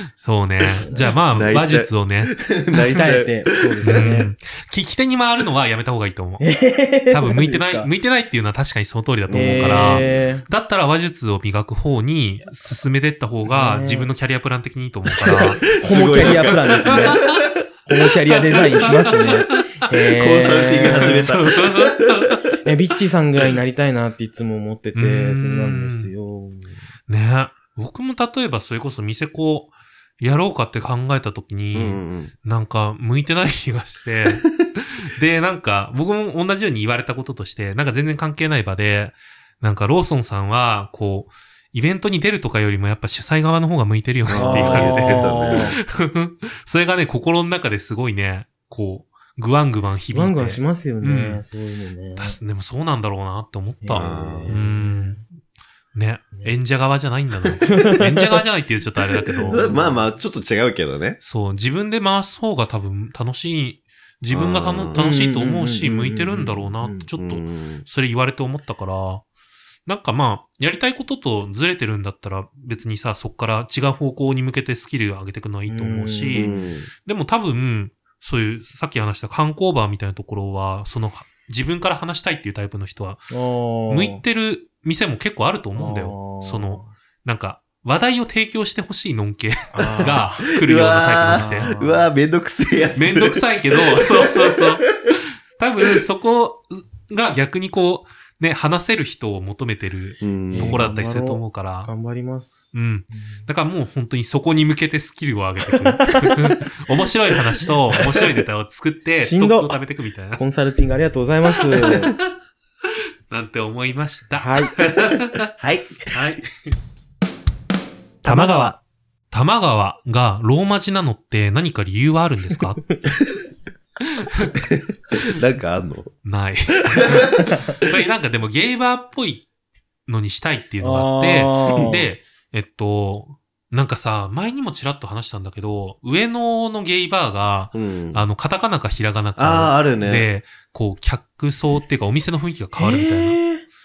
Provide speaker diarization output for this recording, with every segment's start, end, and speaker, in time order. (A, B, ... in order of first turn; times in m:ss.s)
0:00.2-0:02.4 A
0:00.8-0:01.2 B
0:01.0-0:04.1 C
0:02.9-0:04.3 B
0:03.8-0:06.4 A
0:06.4-0:07.9 B
0:07.1-0:15.7 A
0:09.3-0:10.2 C
0:09.3-0:10.4 B
0:13.4-0:14.1 B
0:15.2-0:17.6 C
0:15.6-0:17.2 B
0:17.9-0:21.2 B
0:18.3-0:19.2 C
0:18.8-0:19.7 A
0:20.1-0:22.4 C
0:21.0-0:22.4 A
0:22.6-0:26.8 B
0:24.9-0:26.1 A
0:27.1-0:51.4 A
0:31.7-0:32.3 C
0:44.3-0:45.8 C
0:44.3-0:45.8 B
0:50.1-0:52.4 B
0:52.2-0:55.2 A
0:53.8-0:55.2 B
0:53.9-0:54.6 C
0:55.9-1:00.0 A
0:57.7-0:58.4 B
0:59.3-1:00.0 B
0:59.5-1:01.2 C
1:01.2-1:09.2 A
1:04.3-1:05.0 C
1:04.9-1:07.1 B
1:07.2-1:07.8 C
1:09.8-1:16.5 A
1:15.7-1:16.6 B
1:16.3-1:16.9 C
1:17.0-1:23.3 A
1:23.3-1:24.2 B
1:23.9-1:31.7 A
1:25.7-1:26.9 B
1:29.7-1:30.5 B
1:30.0-1:35.1 C
1:31.2-1:32.1 B
1:32.9-1:34.8 A
1:35.6-1:41.9 A
1:40.2-1:40.8 C
1:40.5-1:43.5 B
1:42.7-1:50.4 A
1:46.0-1:46.3 B
1:49.2-1:49.8 B
1:50.4-1:52.1 B
1:51.8-1:52.2 A
1:53.3-1:55.4 A
1:54.3-1:54.8 B
1:55.5-1:56.4 C
1:56.1-1:56.4 A
1:58.2-1:58.7 C
1:58.2-1:58.8 A
1:59.3-2:02.8 A
2:04.1-2:04.5 A
2:04.5-2:06.1 C
2:06.2-2:09.5 A
2:07.0-2:07.3 C
2:10.1-2:23.4 A
2:10.8-2:12.1 B
2:17.7-2:18.2 C
2:19.4-2:20.2 C
2:22.8-2:23.6 B